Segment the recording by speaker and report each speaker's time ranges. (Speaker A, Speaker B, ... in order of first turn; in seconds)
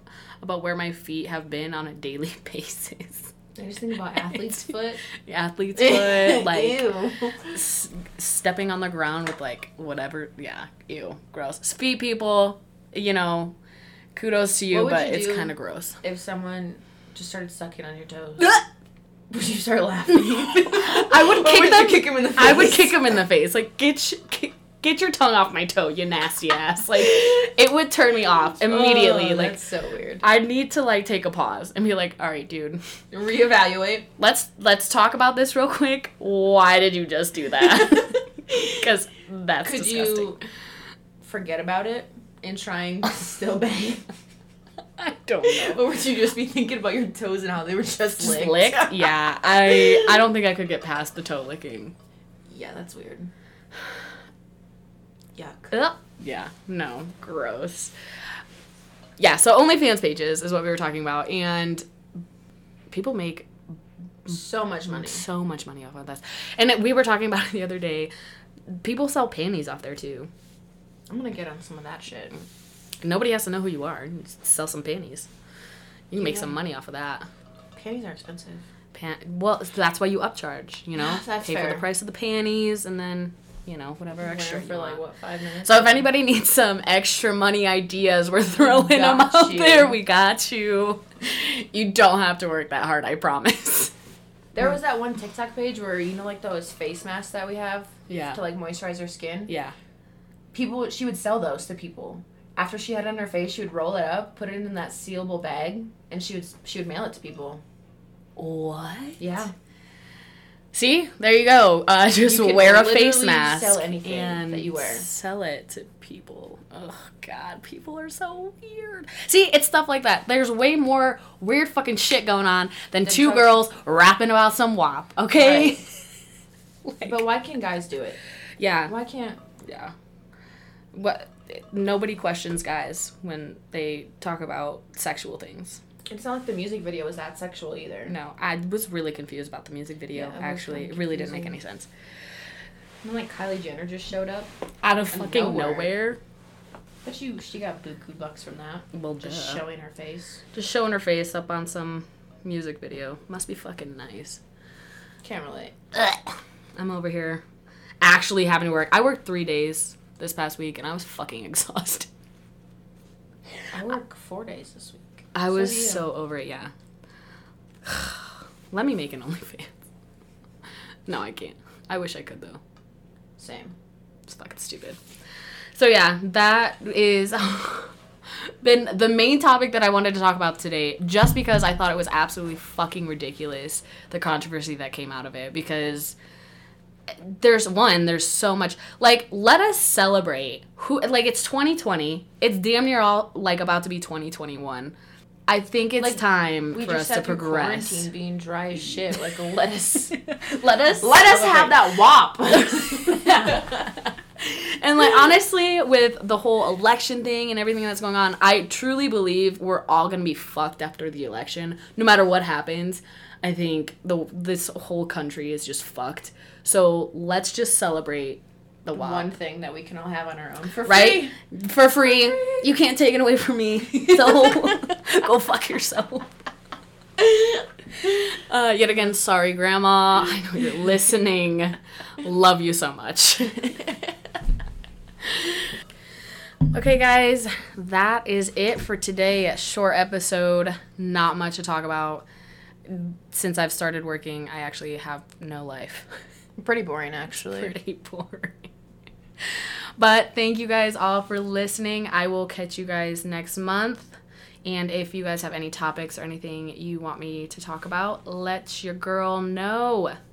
Speaker A: 0.4-3.3, 4.3-6.9, 7.4-13.6, 14.2-16.0, 20.1-29.6, 30.2-32.8, 34.2-40.4, 45.0-45.8, 48.2-51.9, 55.7-57.9, 59.2-61.8, 62.9-63.5, 64.3-68.1, 68.7-70.3, 73.0-75.3, 76.1-77.3, 78.9-85.0, 85.6-93.9, 98.1-98.4, 99.5-99.7, 108.4-109.4, 110.7-126.0, 126.8-127.2, 128.6-128.9, 129.6-129.9, 130.9-135.8, 138.1-141.9, 144.8-146.2, 148.9-149.6, 150.5-154.4, 155.9-157.4, 158.0-162.1, 165.3-166.7, 167.8-169.8, 171.1-172.6, 174.3-175.0, 175.8-177.9, 178.6-186.2, 187.1-194.9, 195.5-198.1, 200.4-201.8, 202.6-203.9, 204.4-219.3, 220.8-226.3, 228.0-233.9, 235.2-235.6, 236.7-242.2, 242.9-246.1, 247.5-248.7, 250.0-260.2
Speaker B: 3.6-5.0, 5.8-7.6, 14.7-18.6, 19.3-23.2, 28.6-30.2, 33.1-34.1, 39.6-40.4, 41.2-44.1, 45.4-50.2, 52.5-53.3, 55.4-55.7, 64.3-65.2, 71.1-72.4, 76.2-76.5, 77.8-78.6, 81.0-81.9, 84.2-86.1, 88.5-90.0, 94.5-99.5, 100.5-107.6, 109.2-109.5, 112.2-115.1, 123.0-123.6, 125.3-125.8, 127.0-128.2, 128.9-129.4, 136.1-138.1, 140.1-141.6, 143.0-144.5, 145.1-145.9, 147.0-150.4, 155.2-155.8, 163.7-166.1, 173.4-173.8, 196.0-203.8, 218.9-221.3, 246.6-247.7